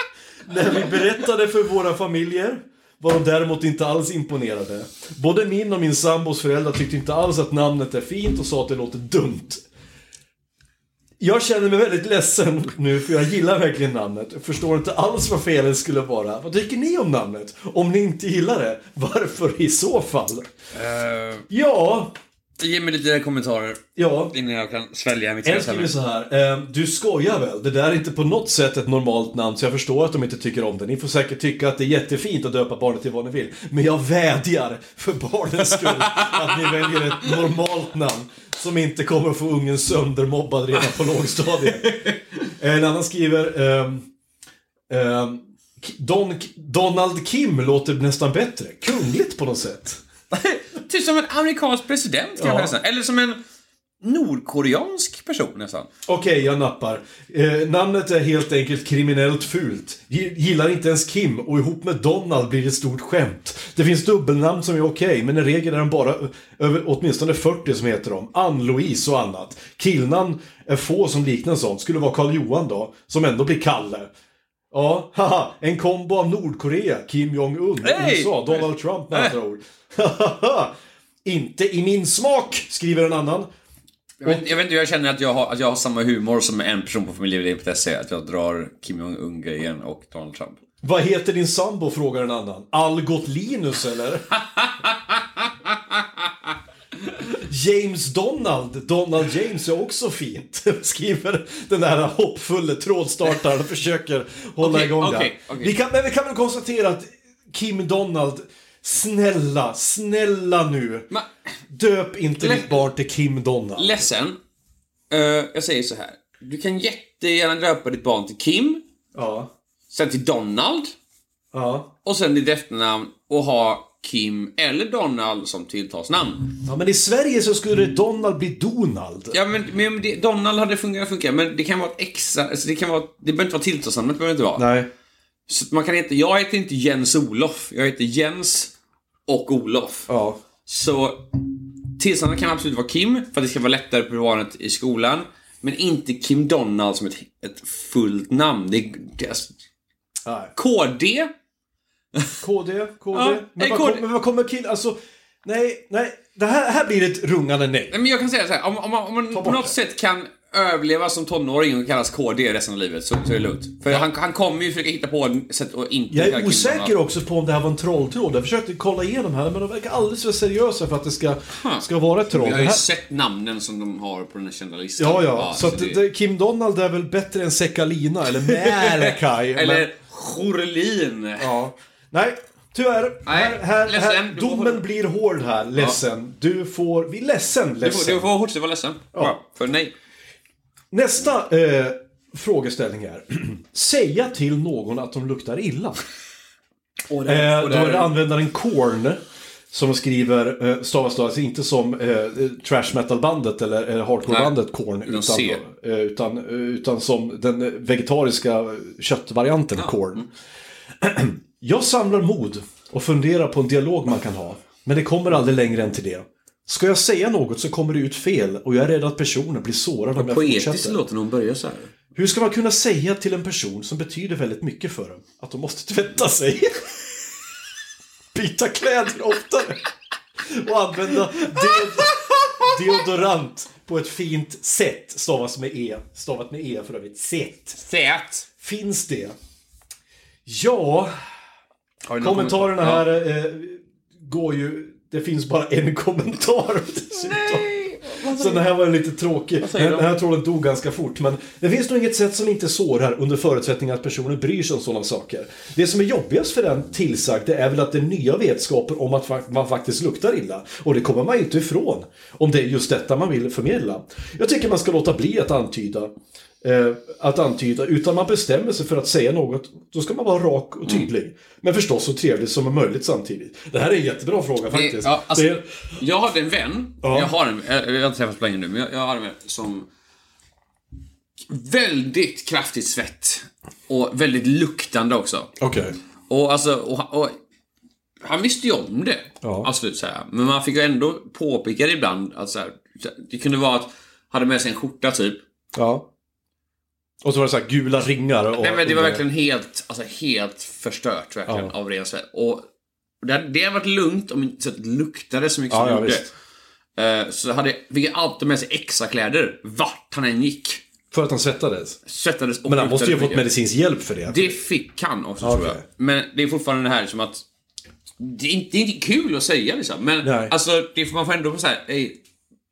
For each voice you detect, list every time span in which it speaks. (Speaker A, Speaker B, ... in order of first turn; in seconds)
Speaker A: 0.5-9.6, 11.2-20.5, 21.5-22.1, 24.0-24.3, 25.4-44.1, 44.9-50.0, 52.4-52.7, 56.1-74.1, 74.7-80.7, 81.2-83.5, 84.2-84.5, 90.8-94.3, 97.2-111.1, 111.7-114.0, 119.1-119.5, 121.5-121.9, 126.6-129.4, 134.6-134.9, 140.1-140.4, 150.2-150.5, 152.4-157.9, 159.3-159.8, 166.1-172.8, 175.0-179.9, 181.4-188.3, 190.9-196.0, 197.2-210.2, 211.0-221.0, 222.1-227.0, 228.3-229.8, 230.4-237.8, 238.6-239.3, 240.4-241.1, 242.2-247.7, 248.3-275.6, 277.0-277.3, 285.6-285.9, 289.4-289.7, 295.7-296.1, 297.2-299.2, 305.7-306.3, 311.1-312.0, 312.6-314.6, 315.4-315.8, 320.2-320.5
Speaker B: 20.7-21.4, 22.6-25.9, 35.8-37.3, 41.9-42.1, 50.3-53.4, 54.0-55.9, 77.8-79.3, 84.2-90.6, 94.3-96.5, 104.6-105.7, 112.4-112.8, 113.8-114.4, 115.1-118.8, 119.9-120.9, 122.0-126.6, 129.3-134.7, 135.5-138.7, 139.3-140.1, 140.7-149.5, 150.5-151.3, 153.1-154.1, 157.9-166.9, 171.5-176.0, 178.4-181.6, 183.2-184.8, 187.8-189.9, 197.1-198.1, 204.3-204.5, 205.1-205.6, 209.8-210.2, 220.2-221.9, 237.8-238.5, 242.1-243.1, 247.1-248.7, 249.6-250.1, 274.7-279.9, 281.5-285.5, 286.3-287.4, 288.2-295.4, 298.6-302.6, 303.2-306.3, 307.0-310.8, 312.1-313.5, 314.3-317.4, 318.2-322.2